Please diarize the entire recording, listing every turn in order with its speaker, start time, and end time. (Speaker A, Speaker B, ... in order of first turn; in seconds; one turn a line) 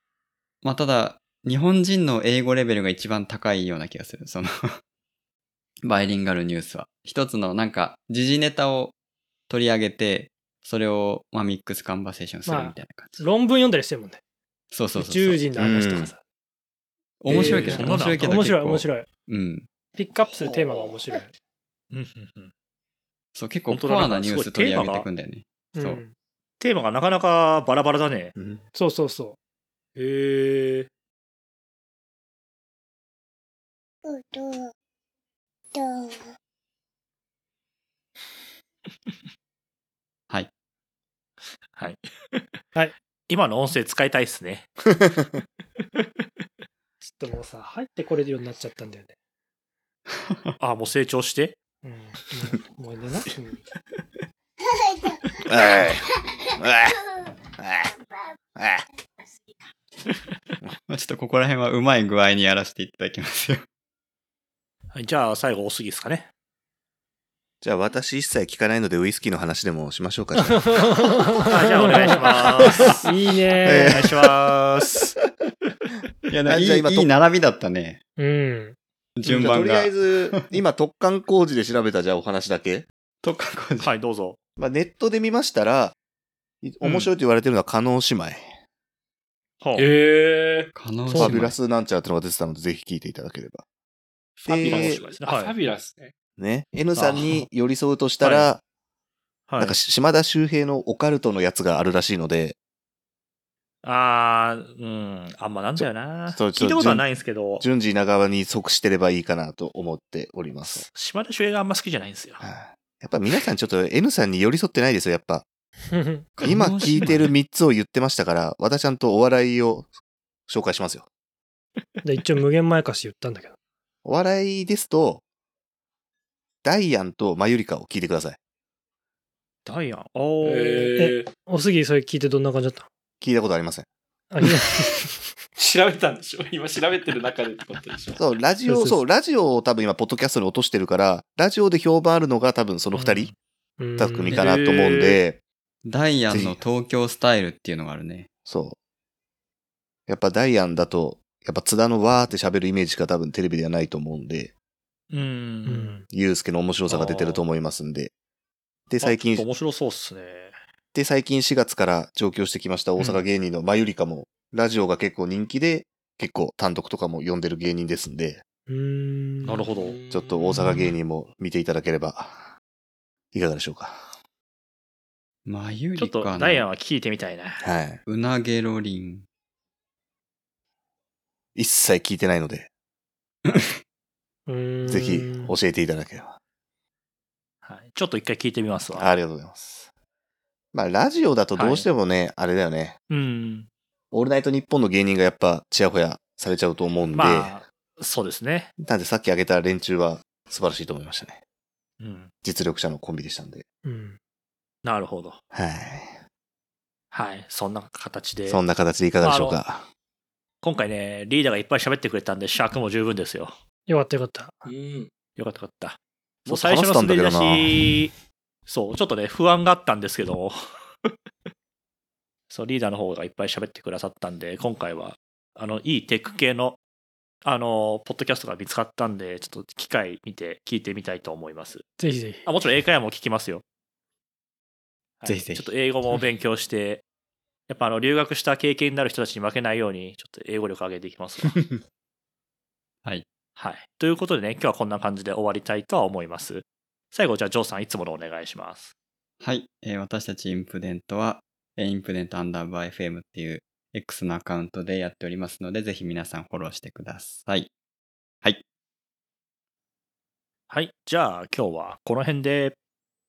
Speaker A: 0.6-4.8
Speaker A: 5.8-8.9
Speaker A: 9.5-13.2
Speaker B: 12.5-14.2
Speaker A: 14.7-15.4
Speaker B: 14.9-16.2
Speaker C: 15.6-16.1
Speaker A: 17.2-19.7
Speaker D: 17.3-18.3
Speaker B: 17.3-19.1
Speaker C: 17.4-17.8
Speaker B: 19.9-21.3
Speaker D: 21.9-22.5
Speaker A: 23.3-26.0
Speaker D: 23.7-25.1
Speaker B: 25.8-26.1
Speaker D: 26.6-28.3
Speaker C: 28.4-28.6
Speaker B: 28.8-29.4
Speaker D: 30.0-30.9
Speaker D: 41.8-42.4
Speaker D: 43.3-44.7
Speaker B: 47.0-49.1
Speaker D: 50.6-51.6
Speaker B: 51.8-53.6
Speaker C: 55.5-57.0
Speaker C: 57.6-57.9
Speaker C: 58.6-58.8
Speaker A: 60.9-63.6
Speaker D: 64.9-66.3
Speaker C: 67.6-70.9
Speaker B: 70.4-74.1
Speaker D: 71.5-73.0
Speaker C: 73.6-74.2
Speaker D: 73.7-75.1
Speaker A: 76.3-78.0
Speaker C: 76.5-77.1
Speaker B: 78.2-78.8
Speaker A: 79.2-79.9
Speaker C: 79.2-82.9
Speaker A: 83.2-83.9
Speaker D: 83.8-84.4
Speaker C: 84.6-85.9
Speaker C: 86.6-88.5
Speaker D: 86.8-87.1
Speaker D: 89.6-89.9
Speaker E: 89.8-90.7
Speaker A: 90.7-91.6
Speaker C: 91.2-93.6
Speaker E: 94.4-96.2
Speaker C: 94.5-95.0
Speaker D: 94.6-95.5
Speaker C: 96.4-98.6
Speaker D: 97.0-97.5
Speaker D: 98.2-98.5
Speaker D: 99.5-99.8
Speaker C: 99.6-102.6
Speaker D: 103.8-107.7
Speaker C: 106.3-107.1
Speaker C: 107.6-110.9
Speaker D: 110.6-112.5
Speaker C: 112.4-115.5
Speaker B: 115.9-116.3
Speaker A: 116.4-117.3
Speaker C: 116.4-119.9
Speaker C: 120.5-121.1
Speaker B: 122.0-123.6
Speaker C: 124.0-125.2
Speaker C: 126.6-128.4
Speaker D: 129.7-130.9
Speaker E: 130.4-131.3
Speaker B: 131.0-132.9
Speaker C: 133.2-133.9
Speaker B: 134.3-135.2
Speaker E: 135.6-138.2
Speaker C: 138.2-143.3
Speaker B: 138.7-139.0
Speaker D: 142.9-143.3
Speaker B: 143.8-144.4
Speaker C: 144.0-145.4
Speaker A: 144.3-145.2
Speaker D: 144.7-145.1
Speaker A: 145.8-148.3
Speaker C: 146.3-146.6
Speaker C: 148.5-148.8
Speaker C: 150.1-154.5
Speaker D: 155.1-156.0
Speaker B: 155.7-156.1
Speaker C: 156.1-158.1
Speaker D: 156.9-157.4
Speaker C: 158.9-159.5
Speaker D: 159.0-160.6
Speaker C: 160.9-168.4
Speaker B: 168.7-169.7
Speaker D: 169.4-170.0
Speaker E: 169.8-170.6
Speaker C: 170.1-172.5
Speaker C: 173.3-174.1
Speaker A: 175.5-176.7
Speaker D: 176.0-177.7
Speaker C: 177.6-178.0
Speaker A: 178.1-179.2
Speaker C: 181.6-182.7
Speaker A: 183.5-183.7
Speaker B: 184.5-185.6
Speaker C: 184.8-186.4
Speaker D: 187.6-189.1
Speaker C: 188.9-189.9
Speaker C: 190.7-193.0
Speaker D: 191.6-191.9
Speaker D: 193.1-193.7
Speaker C: 194.1-197.6
Speaker D: 197.1-198.7
Speaker C: 198.8-201.4
Speaker D: 202.0-202.3
Speaker C: 202.4-203.6
Speaker B: 203.8-204.2
Speaker D: 204.8-205.4
Speaker C: 205.5-206.2
Speaker D: 207.1-208.6
Speaker C: 208.5-209.9
Speaker D: 209.2-209.6
Speaker D: 210.6-213.5
Speaker B: 213.9-214.7
Speaker E: 214.7-215.1
Speaker D: 215.4-218.2
Speaker C: 216.5-217.9
Speaker D: 218.7-221.1
Speaker D: 222.5-226.8
Speaker D: 227.4-231.8
Speaker B: 232.0-232.5
Speaker D: 232.4-233.6
Speaker D: 235.2-237.0
Speaker A: 235.2-235.7
Speaker D: 237.7-241.6
Speaker D: 243.6-248.9
Speaker A: 249.4-257.7
Speaker D: 260.7-262.8